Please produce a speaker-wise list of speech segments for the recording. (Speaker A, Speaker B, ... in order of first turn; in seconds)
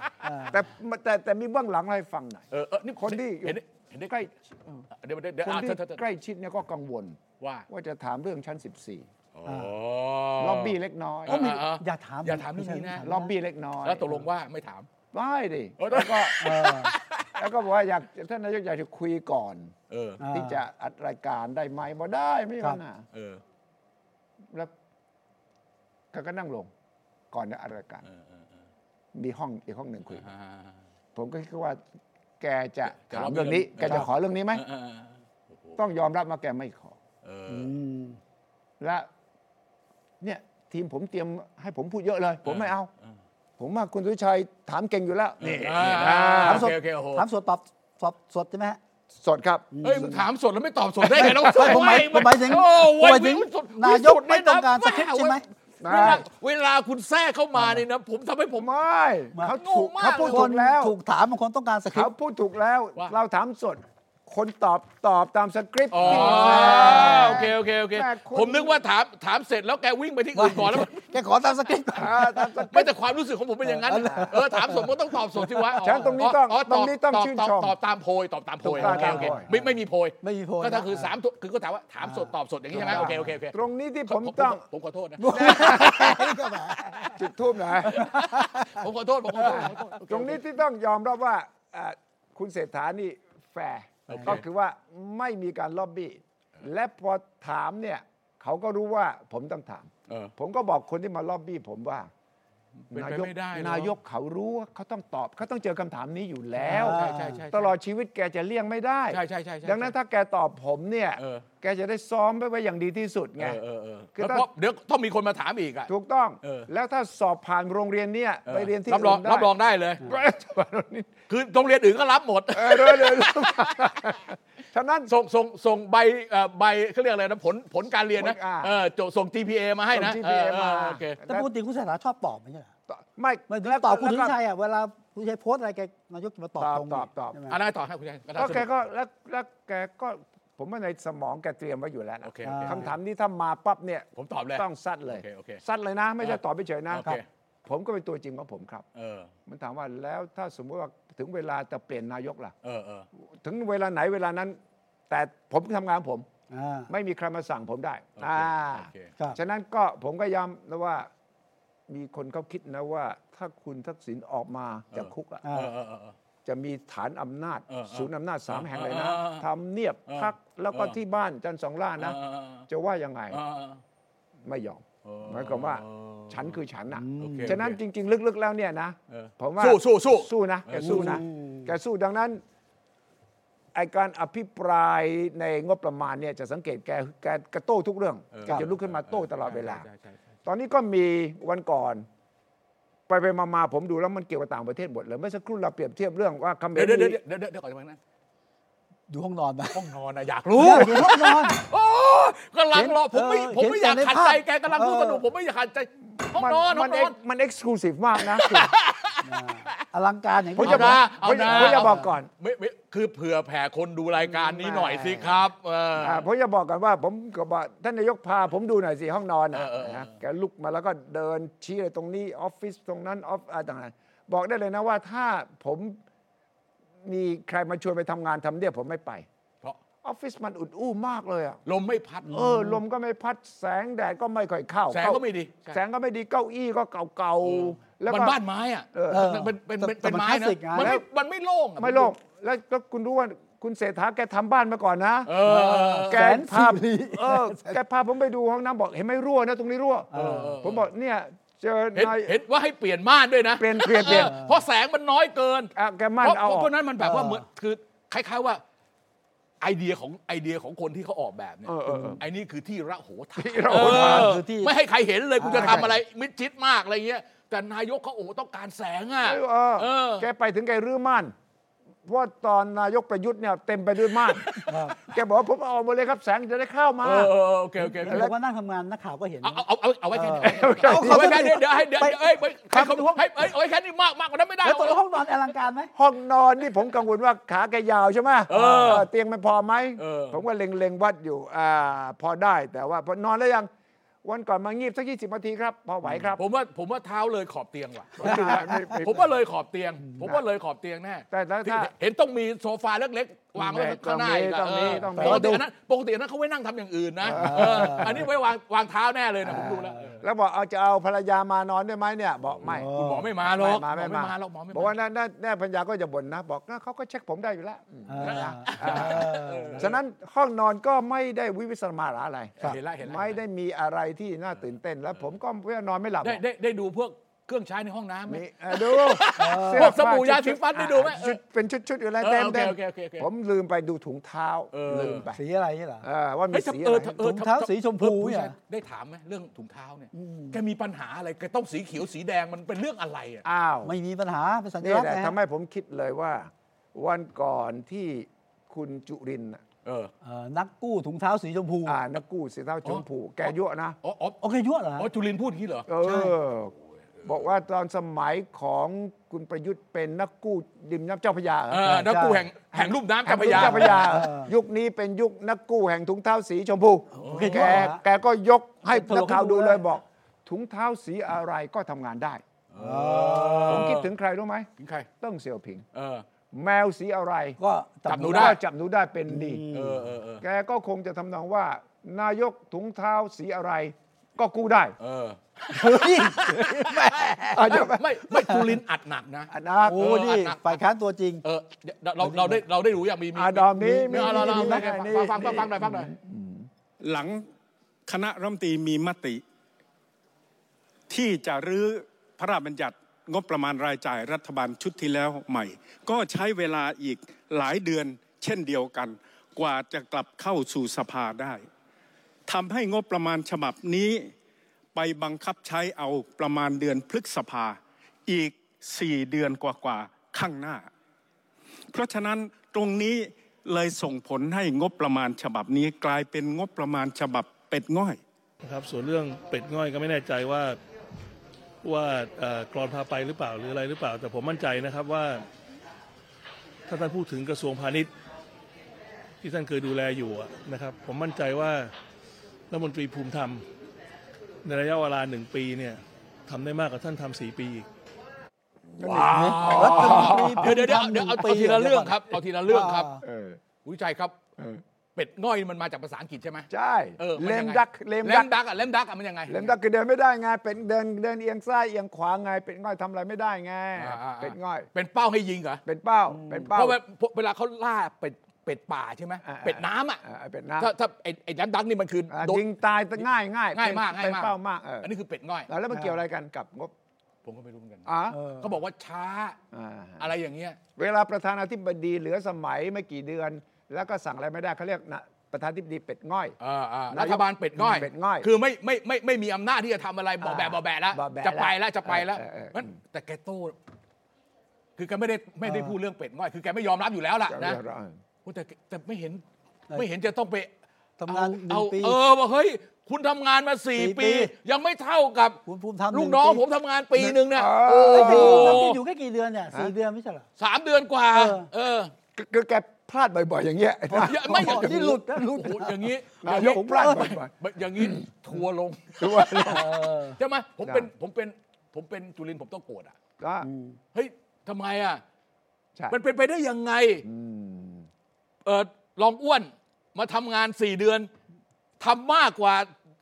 Speaker A: 0.2-0.6, 9.4-9.7, 11.3-13.3, 16.4-16.9, 20.2-20.6, 37.5-38.2, 46.4-48.8, 49.7-50.1, 51.1-55.4, 57.5-57.8, 60.2-62.1, 66.0-67.5, 70.3-72.5, 73.6-76.1, 78.7-81.1, 82.0-83.3, 85.2-87.2, 87.8-88.8, 89.4-89.7, 94.1-94.3, 106.6-107.4, 131.3-132.7, 133.5-137.6, 142.4-142.9, 156.5-156.9, 165.4-165.7, 176.9-177.6, 180.8-181.7, 199.1-199.8, 200.5-201.6, 202.7-205.2, 209.2-212.1, 232.3-232.8, 239.1-240.9, 245.4-247.8, 250.1-250.5, 254.1-254.5, 257.0-257.4, 261.9-262.2, 263.7-264.7, 265.4-265.9, 274.6-274.9, 277.9-283.2, 284.6-285.9, 288.5-289.0, 298.2-299.0, 305.1-305.6, 307.3-308.2, 309.5-309.9, 312.6-313.3, 318.1-319.9, 329.4-329.9, 335.3-336.0, 337.2-338.5, 340.1-340.6, 343.8-345.4, 350.2-352.0, 354.4-355.1, 356.0-356.3, 361.8-362.4, 363.4-364.5, 367.2-368.0, 368.9-369.8, 372.8-373.9, 377.6-378.6, 379.3-380.1, 385.7-387.9, 389.9-391.4, 392.2-392.6, 393.8-394.9, 449.2-453.2, 466.3-466.7, 478.3-478.7, 495.6-495.9, 501.2-502.2, 504.0-504.5, 505.6-506.6, 508.1-510.4, 511.3-511.6, 514.1-515.9, 516.5-517.3, 519.6-520.4, 523.6-524.0
Speaker B: 0.5-2.5, 3.0-4.8, 5.4-9.1, 10.4-11.5, 13.0-14.2, 15.1-16.5, 17.4-19.7, 20.3-23.1, 26.1-26.7, 27.3-28.0, 29.1-30.3, 31.1-31.8, 32.4-34.6, 35.8-37.0, 38.8-39.1, 40.2-42.9, 43.6-46.7, 49.1-50.1, 51.1-52.0, 55.8-56.2, 58.5-60.9, 61.9-68.8, 71.9-72.9, 74.0-74.4, 75.8-77.7, 78.6-79.5, 82.7-84.6, 85.3-86.3, 87.1-88.1, 89.4-102.1, 102.9-113.6, 114.2-114.5, 115.9-121.1, 122.5-125.1, 128.2-128.7, 129.9-131.5, 132.9-134.3, 136.6-137.4, 138.3-147.1, 147.7-148.8, 149.5-152.5, 153.4-154.6, 155.1-156.3, 156.9-161.1, 161.9-165.4, 166.4-172.2, 172.7-173.4, 174.4-182.4, 183.7-189.8, 190.4-192.1, 193.1-197.2, 206.2-208.7, 210.6-212.3, 214.2-215.4, 216.0-226.0, 227.0-229.2, 230.0-231.6, 232.3-238.4, 238.9-239.3, 240.8-241.0, 241.8-245.3, 246.1-250.1, 250.6-252.3, 253.6-254.3, 255.8-256.7, 261.6-262.2, 263.4-264.4, 265.5-265.9, 269.2-271.3, 272.0-277.3, 278.0-278.3, 280.4-281.6, 285.9-293.7, 294.2-296.4, 298.2-299.3, 301.3-301.9, 303.6-305.6, 307.2-308.3, 309.4-312.9, 313.4-326.4, 328.3-335.4, 336.0-337.2, 343.4-343.9, 344.8-349.6, 351.8-354.0, 355.9-356.7, 357.2-361.9, 362.7-372.4, 373.7-374.7, 375.2-375.9, 376.5-377.6, 378.2-379.6, 380.4-384.9, 387.5-388.1, 389.5-390.1, 393.3-396.7, 449.0-450.8, 453.2-453.6, 456.7-458.5, 459.5-464.9, 465.8-467.0, 469.4-470.9, 472.3-475.1, 475.7-476.9, 478.1-478.4, 479.7-480.3, 480.9-486.5, 487.1-488.5, 490.4-492.9, 497.5-498.1, 507.2-508.9, 512.3-515.2, 516.4-518.2, 519.2-519.9, 523.4-523.7, 527.2-528.1
Speaker C: 2.5-4.2, 5.0-6.0, 7.4-7.7, 9.3-13.1, 13.8-14.9, 15.8-17.4, 19.9-20.2, 23.1-23.4, 28.1-28.4, 30.1-30.8, 33.0-35.8, 37.2-37.7, 42.4-43.1, 45.4-47.2, 49.8-58.7, 59.5-60.5, 65.9-71.0, 72.7-87.1, 87.9-90.4, 94.1-94.4, 100.1-100.3, 102.9-103.9, 106.7-107.7, 109.1-109.9, 111.2-111.5, 113.4-115.9, 116.4-116.7, 118.5-120.0, 121.3-124.0, 125.1-131.2, 137.5-138.7, 142.2-142.9, 144.2-145.6, 146.2-147.2, 148.9-149.3, 152.6-153.1, 158.2-159.1, 164.9-166.1, 167.7-169.4, 170.1-171.0, 172.0-172.7, 173.3-173.8, 175.0-176.6, 177.2-177.8, 179.1-181.2, 188.3-190.2, 196.7-198.0, 199.7-207.1, 208.2-209.8, 210.6-216.2, 219.5-220.1, 231.7-232.4, 234.9-235.8, 237.4-242.1, 245.2-246.3, 250.1-250.9, 251.9-258.6, 259.6-270.3, 274.1-274.8, 277.0-278.3, 279.4-285.0, 288.5-289.1, 290.0-290.4, 296.3-310.2, 312.6-314.9, 318.2-320.0, 322.6-323.4, 326.2-331.4, 332.2-333.3, 334.7-335.3, 336.5-343.4, 349.8-350.1, 352.8-353.5, 354.0-354.4, 354.9-355.9, 361.7-364.1, 367.2-367.9, 372.7-374.1, 374.8-375.1, 375.9-376.2, 378.1-378.6, 379.7-380.4, 385.0-390.8, 391.4-396.1, 449.0-453.1, 453.8-454.4, 455.1-459.7, 464.0-465.8, 466.7-470.2, 470.8-472.6, 473.7-475.7, 477.4-479.6, 480.2-480.8, 486.6-493.8, 495.0-497.8, 498.4-500.7, 501.3-509.0, 510.6-512.1, 514.2-523.1, 524.1-525.2, 526.1-527.2, 528.6-531.3, 532.0-532.9
Speaker D: 397.0-397.4, 398.1-399.4, 401.1-411.6, 412.5-414.3, 414.9-420.9, 421.9-428.2
Speaker E: 428.6-430.8, 431.8-435.4, 436.9-438.1, 439.4-441.9, 442.7-443.6, 444.6-447.9